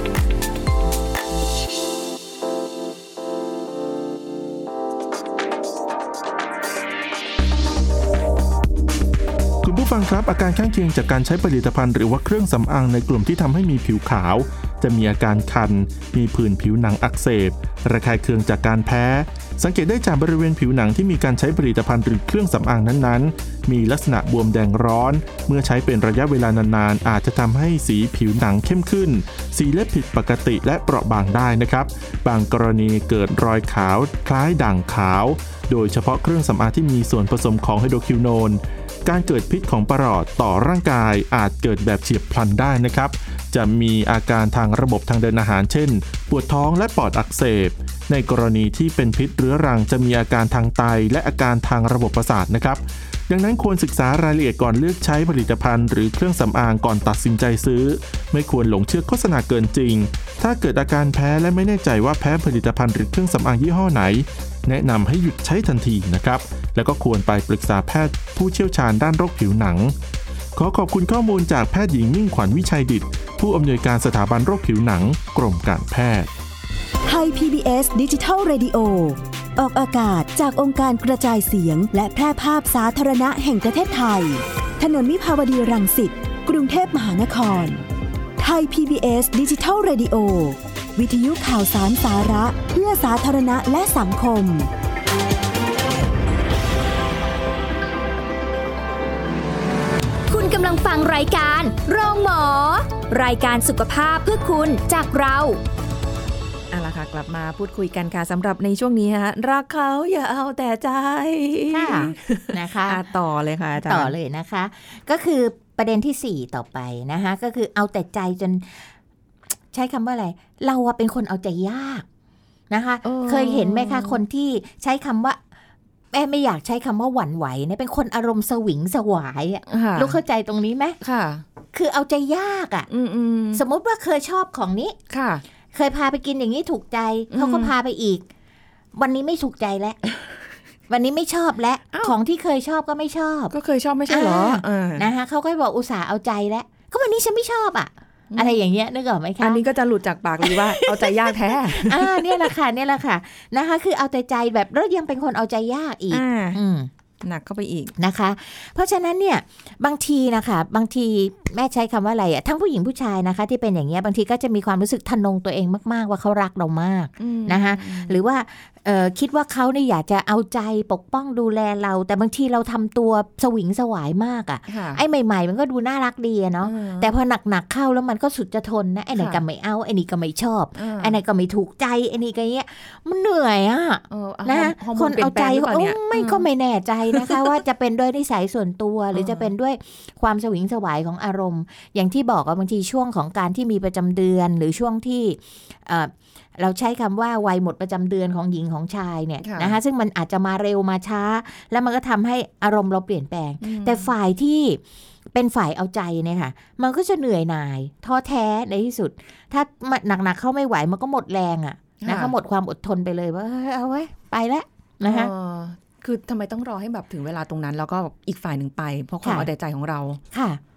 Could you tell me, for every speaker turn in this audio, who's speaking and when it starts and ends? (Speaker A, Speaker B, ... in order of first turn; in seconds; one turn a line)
Speaker A: 9.6-69.9
Speaker A: 70.5-76.3
Speaker B: 77.0-87.8
Speaker B: 88.4-94.7
Speaker C: 100.3-105.6
Speaker D: 106.7-114.1
Speaker E: 111.7-113.0
Speaker E: 113.8-118.9
Speaker E: 119.7-122.0
Speaker E: 122.7-125.4
Speaker D: 123.0-124.2
Speaker E: 126.1-131.0
Speaker D: 129.7-130.2
Speaker D: 131.0-131.4
Speaker E: 131.7-132.9
Speaker D: 132.9-133.6
Speaker E: 133.5-134.9
Speaker D: 135.1-135.4
Speaker E: 135.7-138.2
Speaker D: 137.3-137.7
Speaker E: 138.9-140.0
Speaker E: 140.9-143.5
Speaker D: 143.5-145.1
Speaker E: 144.1-149.6
Speaker D: 148.3-148.6
Speaker D: 149.4-152.5
Speaker E: 150.5-156.9
Speaker D: 156.1-156.6
Speaker D: 157.2-157.9
Speaker E: 158.0-204.8
Speaker D: 167.2-168.2
Speaker D: 174.7-175.0
Speaker D: 176.6-177.1
Speaker D: 179.1-179.4
Speaker D: 180.8-181.2
Speaker D: 184.1-186.4
Speaker D: 187.1-187.5
Speaker D: 189.1-189.5
Speaker D: 199.4-199.8
Speaker D: 203.6-204.1
Speaker E: 205.3-215.3
Speaker D: 212.0-212.3
Speaker D: 215.0-220.2
Speaker E: 220.3-220.6